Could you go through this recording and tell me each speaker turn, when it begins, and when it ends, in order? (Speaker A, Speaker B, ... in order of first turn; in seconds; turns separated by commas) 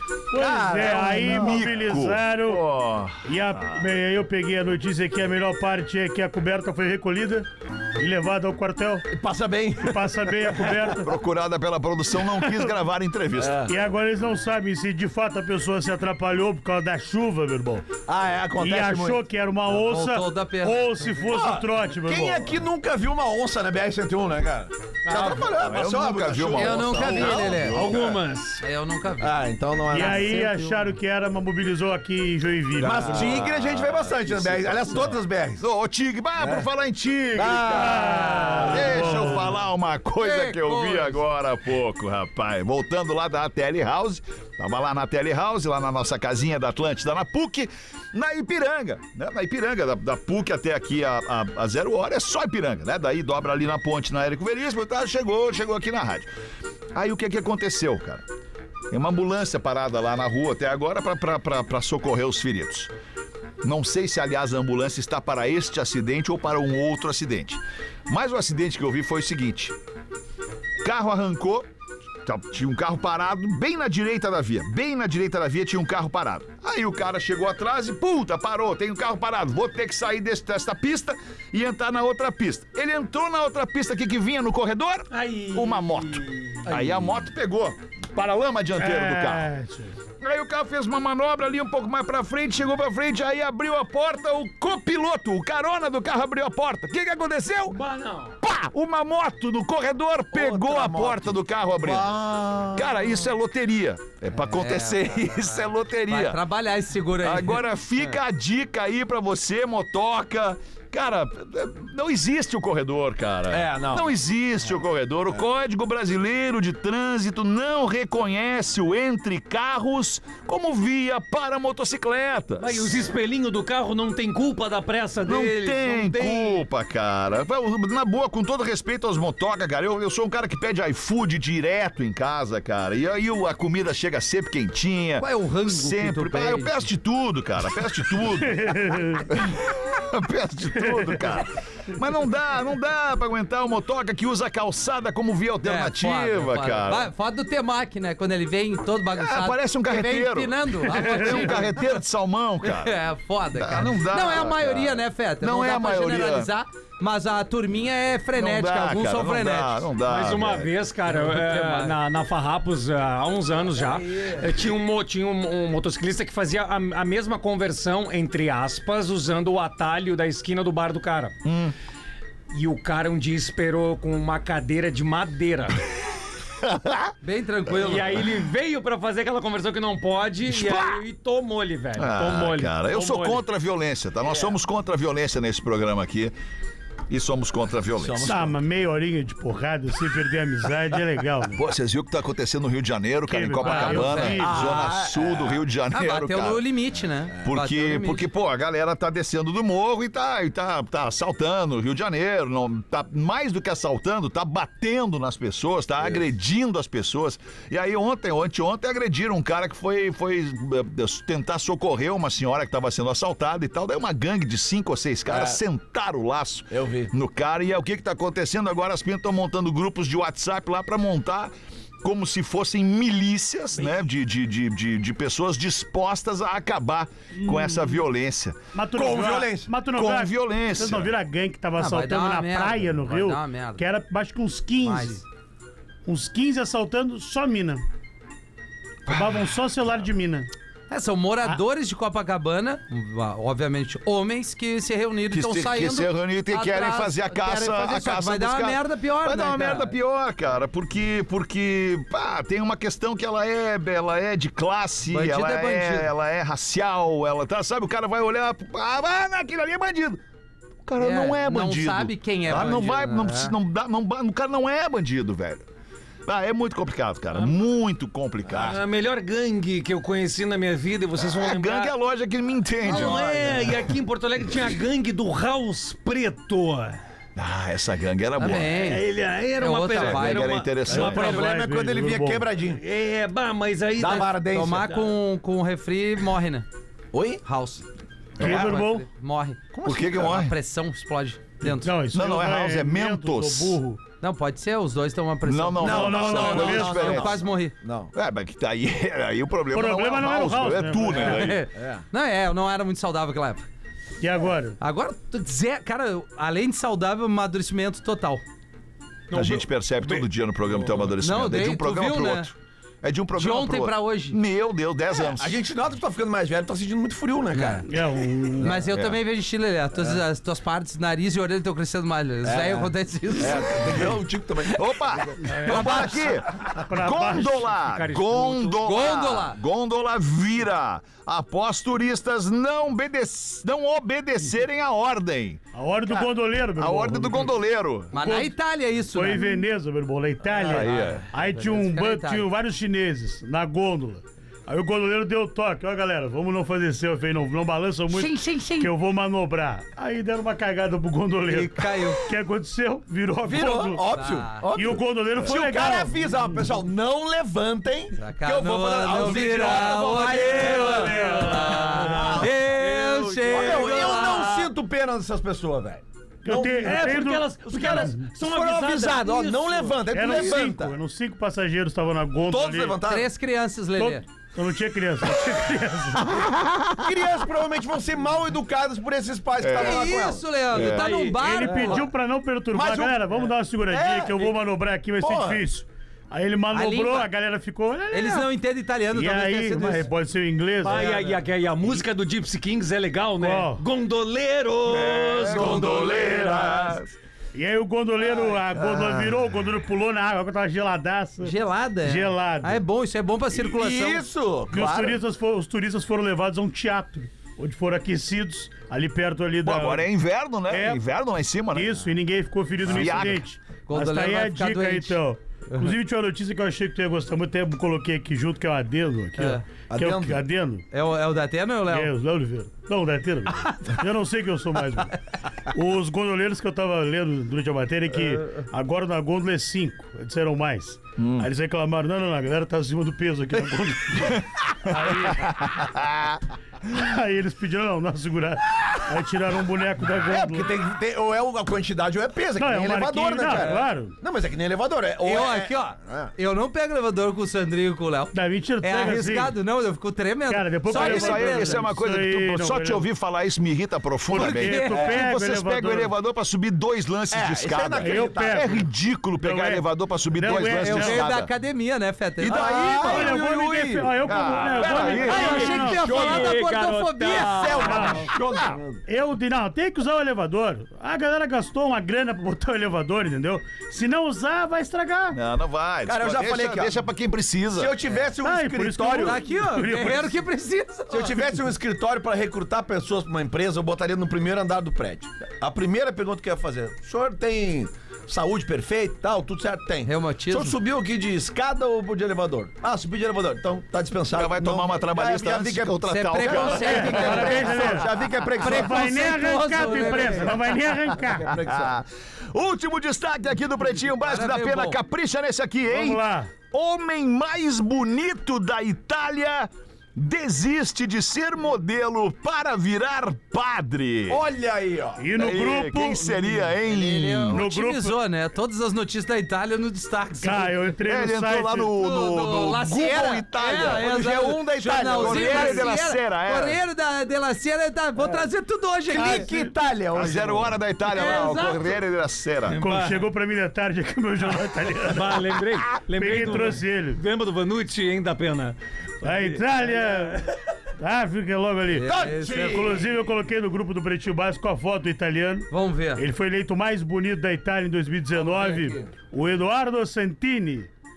Speaker A: 0.3-2.6, Speaker B: 0.3-1.6, Speaker C: 0.4-3.8, Speaker A: 3.2-7.5, Speaker A: 8.0-9.1, Speaker B: 9.1-10.8, Speaker A: 9.8-11.1, Speaker C: 11.0-13.7, Speaker B: 13.3-13.7, Speaker A: 13.7-17.8, Speaker B: 18.1-19.2, Speaker A: 18.6-22.5, Speaker D: 19.7-21.1, Speaker B: 21.3-28.1, Speaker E: 25.1-25.5, Speaker C: 25.3-28.2, Speaker D: 26.5-27.8, Speaker E: 27.6-28.6, Speaker D: 28.6-29.4, Speaker B: 29.2-30.6, Speaker A: 29.9-33.5, Speaker D: 29.9-30.7, Speaker B: 32.8-35.6, Speaker C: 32.9-35.0, Speaker C: 35.6-38.0, Speaker B: 36.4-36.6, Speaker B: 37.3-39.2, Speaker A: 37.7-39.5, Speaker C: 38.6-56.3, Speaker D: 40.2-41.2, Speaker C: 56.9-58.2, Speaker C: 58.9-62.9, Speaker C: 63.6-69.7, Speaker C: 70.8-71.7, Speaker C: 72.2-89.5, Speaker E: 85.1-86.8, Speaker A: 88.8-89.9, Speaker C: 90.2-97.8, Speaker E: 97.7-98.4, Speaker C: 98.4-106.4, Speaker B: 100.3-102.9, Speaker D: 104.4-108.1, Speaker C: 107.2-122.9, Speaker B: 113.5-114.1, Speaker E: 122.6-126.6, Speaker C: 125.2-147.1, Speaker D: 135.2-136.9, Speaker A: 138.4-139.2, Speaker A: 140.8-141.1, Speaker D: 145.6-151.8, Speaker C: 149.1-152.9, Speaker D: 152.6-159.8, Speaker C: 153.5-156.5, Speaker C: 158.3-160.7, Speaker E: 160.0-171.3, Speaker D: 161.1-161.9, Speaker C: 171.4-171.7, Speaker E: 172.5-175.8, Speaker C: 176.6-177.1, Speaker D: 177.2-178.2, Speaker E: 177.7-183.4, Speaker C: 180.5-181.0, Speaker C: 181.9-186.3, Speaker C: 187.1-188.5, Speaker B: 188.0-188.6, Speaker A: 188.2-191.6, Speaker C: 191.5-196.6, Speaker A: 193.3-194.6, Speaker D: 193.6-194.7, Speaker B: 194.4-195.6, Speaker D: 195.9-198.2, Speaker C: 197.4-228.6, Speaker B: 215.3-215.6, Speaker B: 216.7-217.1, Speaker A: 227.3-227.9, Speaker A: 228.7-235.2, Speaker B: 228.9-229.7, Speaker C: 229.9-231.1, Speaker D: 231.8-233.8, Speaker D: 234.8-235.2, Speaker A: 236.1-237.8, Speaker C: 239.1-239.4, Speaker A: 239.1-240.5, Speaker D: 240.9-249.9, Speaker C: 245.3-260.2, Speaker D: 255.1-256.1, Speaker C: 260.8-265.6, Speaker D: 261.0-263.5, Speaker C: 266.2-268.8, Speaker E: 268.5-271.9, Speaker C: 271.2-273.9, Speaker E: 272.8-277.0, Speaker B: 272.9-273.5, Speaker C: 277.4-278.8, Speaker D: 278.4-279.1, Speaker E: 278.7-281.0, Speaker D: 279.6-280.6, Speaker C: 279.9-281.4, Speaker B: 280.9-282.8, Speaker A: 280.9-282.5, Speaker E: 282.7-285.0, Speaker B: 284.0-285.0, Speaker D: 284.1-286.6, Speaker B: 287.1-287.4, Speaker D: 287.4-287.8, Speaker A: 288.4-289.1, Speaker C: 288.4-288.7, Speaker D: 288.4-292.0, Speaker B: 289.7-290.3, Speaker C: 289.8-290.5, Speaker A: 291.6-294.0, Speaker C: 292.1-293.8, Speaker D: 294.2-297.8, Speaker C: 295.4-297.4, Speaker B: 295.8-298.1, Speaker A: 295.8-297.2, Speaker C: 298.1-301.6, Speaker A: 299.7-301.5, Speaker D: 301.2-303.7, Speaker B: 301.2-302.0, Speaker A: 304.2-304.8, Speaker D: 304.8-308.4, Speaker E: 309.3-311.1, Speaker C: 309.3-315.6, Speaker D: 311.2-312.5, Speaker D: 313.3-314.4, Speaker B: 315.2-317.9, Speaker D: 317.5-317.9, Speaker A: 317.9-318.7, Speaker D: 318.6-324.0, Speaker C: 318.7-319.2, Speaker B: 322.4-326.3, Speaker C: 324.7-335.6, Speaker E: 325.6-326.1, Speaker A: 326.8-327.7, Speaker E: 327.7-328.8, Speaker D: 328.8-329.6, Speaker A: 335.7-337.6, Speaker C: 336.7-338.1, Speaker D: 338.1-339.6, Speaker A: 338.1-338.5, Speaker A: 339.1-354.1, Speaker C: 340.6-341.3, Speaker D: 340.7-342.5, Speaker D: 348.1-348.9, Speaker D: 351.5-352.2, Speaker B: 353.4-370.9, Speaker D: 354.1-354.7, Speaker A: 354.7-356.1, Speaker D: 358.1-364.7, Speaker E: 360.6-364.5, Speaker A: 361.1-362.4, Speaker A: 366.4-368.2, Speaker E: 366.8-370.0, Speaker A: 370.1-373.0, Speaker B: 372.5-373.3, Speaker D: 373.0-374.2, Speaker A: 373.9-376.5, Speaker C: 376.6-376.9, Speaker B: 377.0-382.0, Speaker C: 379.6-380.2, Speaker D: 379.7-382.0, Speaker C: 380.7-381.1, Speaker A: 381.4-388.5, Speaker B: 382.7-384.5, Speaker B: 385.2-385.6, Speaker D: 386.7-387.3, Speaker D: 388.1-390.1, Speaker A: 389.1-391.1, Speaker E: 390.8-396.0, Speaker A: 393.4-393.8, Speaker C: 394.9-397.1, Speaker B: 394.9-397.0, Speaker A: 397.5-402.8, Speaker C: 398.7-399.4, Speaker D: 401.4-404.3, Speaker B: 403.5-405.2, Speaker A: 404.7-410.1, Speaker C: 409.6-412.0, Speaker A: 410.7-411.0, Speaker A: 411.7-420.8, Speaker C: 412.9-413.4, Speaker D: 413.9-415.9, Speaker D: 419.4-419.6, Speaker B: 419.9-420.4, Speaker D: 420.9-422.1, Speaker A: 421.9-425.2, Speaker D: 423.6-423.9, Speaker A: 425.7-435.5, Speaker C: 431.2-431.5, Speaker C: 434.9-436.4, Speaker A: 436.9-440.7, Speaker B: 440.3-446.3, Speaker A: 442.6-444.1, Speaker D: 445.2-451.8, Speaker A: 448.3-449.6, Speaker A: 450.5-453.1, Speaker C: 450.9-461.5, Speaker D: 454.3-455.1, Speaker A: 454.3-456.1, Speaker B: 454.9-455.2, Speaker B: 457.3-458.8, Speaker A: 458.0-458.8, Speaker A: 459.4-461.3, Speaker D: 460.7-463.3, Speaker C: 462.4-463.4, Speaker B: 462.4-466.6, Speaker A: 463.0-466.1, Speaker C: 464.2-465.5, Speaker D: 465.0-468.1, Speaker E: 465.3-468.2, Speaker B: 467.3-469.0, Speaker A: 467.8-468.3, Speaker C: 468.5-468.8, Speaker A: 469.1-475.4, Speaker C: 475.3-477.9, Speaker B: 476.1-477.0, Speaker B: 477.8-479.5, Speaker A: 478.4-480.4, Speaker D: 479.2-481.4, Speaker B: 481.1-499.3, Speaker D: 490.0-490.8, Speaker C: 494.3-497.9, Speaker D: 496.1-500.6, Speaker A: 496.9-498.1, Speaker A: 498.6-501.5, Speaker B: 501.1-501.9, Speaker C: 501.5-514.4, Speaker D: 504.2-505.0, Speaker A: 505.9-506.5, Speaker B: 514.3-515.3, Speaker A: 515.2-516.7, Speaker C: 515.4-517.6, Speaker D: 516.9-520.8, Speaker A: 517.5-518.2, Speaker A: 520.4-521.9, Speaker C: 521.0-524.0, Speaker D: 522.0-529.5, Speaker B: 523.6-525.9, Speaker C: 525.1-526.8, Speaker B: 528.2-528.5, Speaker B: 529.1-531.4, Speaker C: 530.1-532.8, Speaker D: 531.1-531.9, Speaker E: 532.7-533.3, Speaker A: 532.8-535.4, Speaker E: 535.1-540.4, Speaker A: 536.2-537.2, Speaker A: 539.2-540.4, Speaker A: 541.0-550.9, Speaker D: 541.9-543.0, Speaker B: 542.0-543.0, Speaker D: 545.7-546.2, Speaker B: 548.4-549.1